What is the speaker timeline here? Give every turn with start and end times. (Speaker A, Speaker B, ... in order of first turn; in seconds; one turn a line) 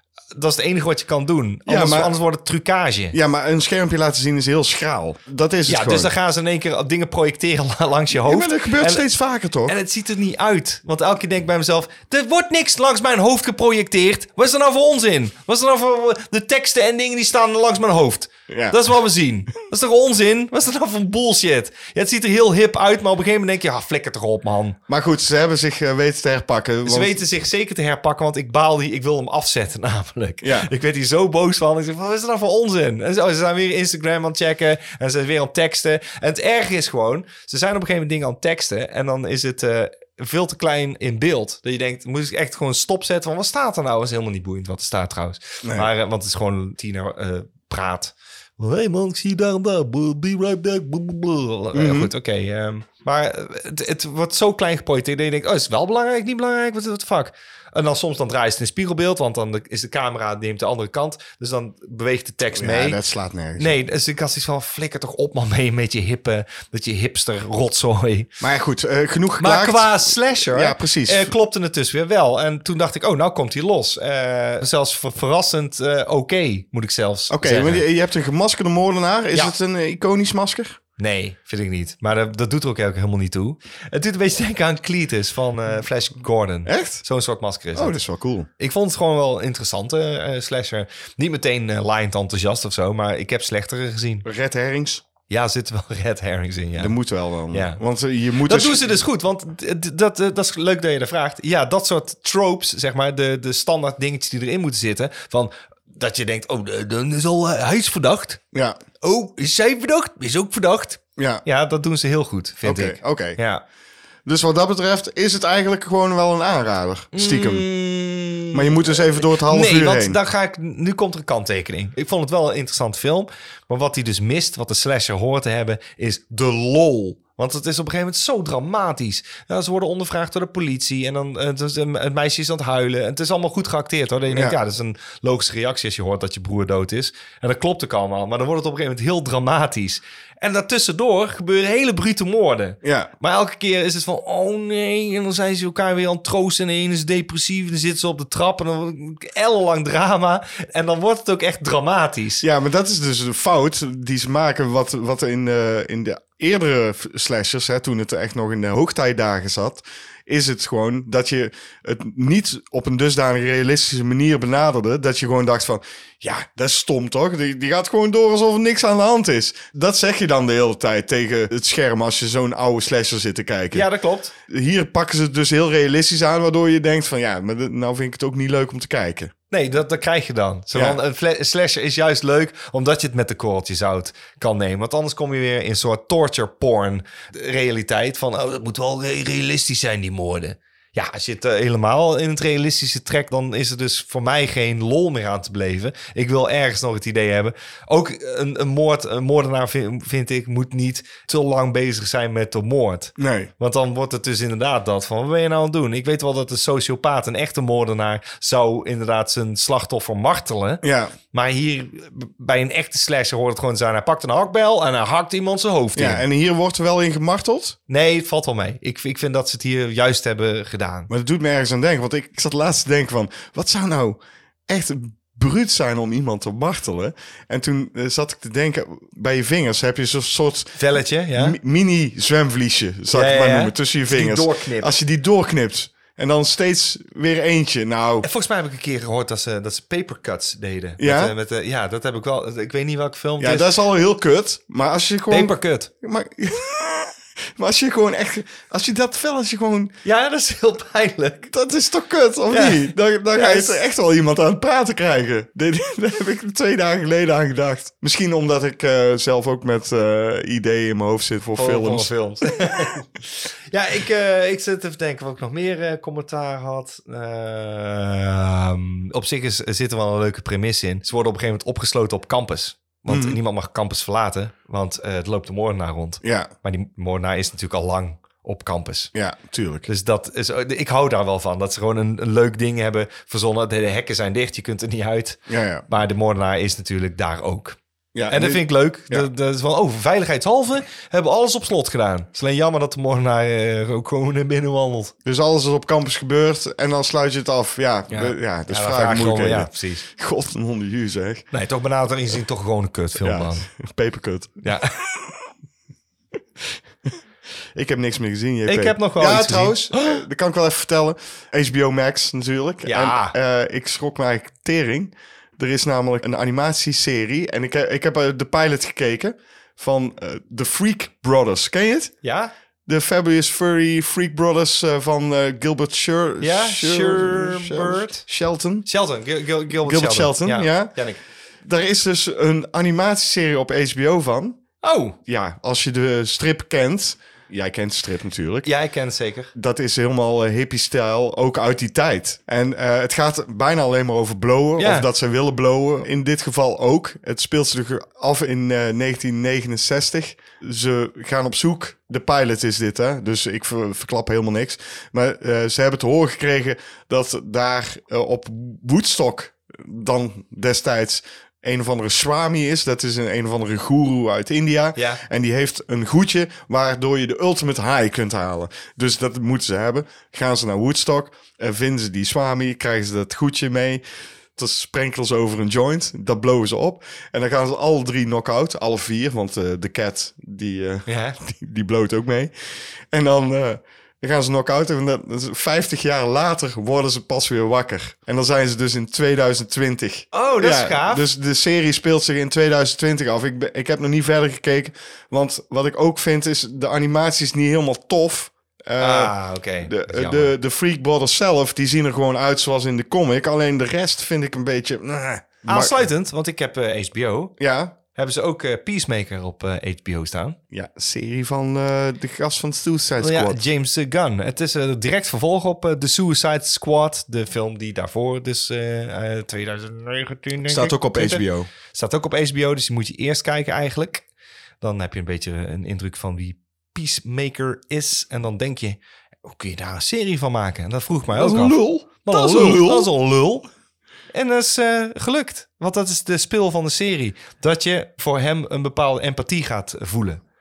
Speaker A: 0.3-3.2
Speaker B: 1.7-2.1
Speaker B: 3.1-6.1
Speaker A: 5.7-9.1
Speaker B: 8.2-9.8
Speaker A: 9.7-24.8
Speaker B: 18.5-18.8
Speaker B: 24.9-27.2
Speaker A: 26.9-63.0
Speaker B: 30.4-30.7
Speaker B: 45.6-45.9
Speaker B: 51.7-52.1
Speaker B: 62.5-63.8
Speaker A: 63.6-68.3
Speaker B: 68.4-71.3
Speaker A: 69.4-77.8
Speaker B: 77.3-80.8
Speaker A: 81.0-88.0
Speaker B: 86.7-87.0
Speaker B: 87.8-88.5
Speaker A: 88.6-94.3
Speaker B: 94.2-95.0
Speaker A: 95.3-97.0
Speaker B: 96.8-99.0
Speaker A: 97.5-97.8
Speaker A: 98.4-108.4
Speaker B: 108.5-108.8
Speaker A: 109.0-113.6
Speaker B: 111.2-111.4
Speaker B: 112.6-113.4
Speaker B: 114.3-117.7
Speaker A: 117.1-152.4
Speaker B: 118.5-120.2
Speaker B: 134.3-134.6
Speaker B: 142.8-143.1
Speaker B: 152.4-173.9
Speaker A: 173.7-174.3
Speaker B: 174.5-179.3
Speaker A: 179.5-216.2
Speaker B: 203.2-203.5
Speaker B: 210.8-211.1
Speaker B: 215.9-217.8
Speaker A: 217.9-221.1
Speaker B: 221.1-230.8
Speaker A: 230.8-231.6
Speaker B: 231.4-238.3
Speaker A: 233.1-234.9
Speaker A: 238.2-243.7
Speaker B: 241.0-241.3
Speaker B: 243.4-249.9
Speaker A: 245.3-245.9
Speaker A: 250.0-251.5
Speaker B: 251.5-262.1
Speaker A: 252.5-253.8
Speaker A: 261.6-279.1
Speaker B: 273.1-273.4
Speaker B: 276.2-276.5
Speaker B: 279.1-279.9
Speaker A: 279.9-287.8
Speaker B: 285.5-285.9
Speaker B: 288.1-289.3
Speaker A: 288.3-295.1
Speaker B: 295.2-301.5
Speaker A: 298.1-300.0
Speaker A: 301.5-303.7
Speaker B: 303.2-304.6
Speaker A: 304.6-304.9
Speaker B: 307.8-322.1
Speaker A: 308.7-310.2
Speaker A: 312.9-313.4
Speaker A: 322.2-322.5
Speaker B: 322.9-328.9
Speaker A: 326.4-328.2
Speaker A: 328.9-331.2
Speaker B: 329.8-330.9
Speaker B: 331.6-334.6
Speaker A: 334.8-335.2
Speaker B: 335.2-338.7
Speaker A: 338.6-339.5
Speaker B: 339.5-374.0
Speaker A: 344.8-345.1
Speaker A: 365.0-365.2
Speaker B: 374.6-382.5
Speaker A: 381.1-381.4
Speaker B: 383.1-406.0
Speaker A: 390.3-391.3
Speaker A: 399.0-400.5
Speaker A: 405.7-407.6
Speaker B: 407.6-407.9
Speaker A: 408.1-410.6
Speaker B: 410.7-413.6
Speaker A: 413.2-424.2
Speaker B: 420.7-421.7
Speaker A: 424.8-433.6
Speaker B: 431.3-433.1
Speaker A: 434.3-440.4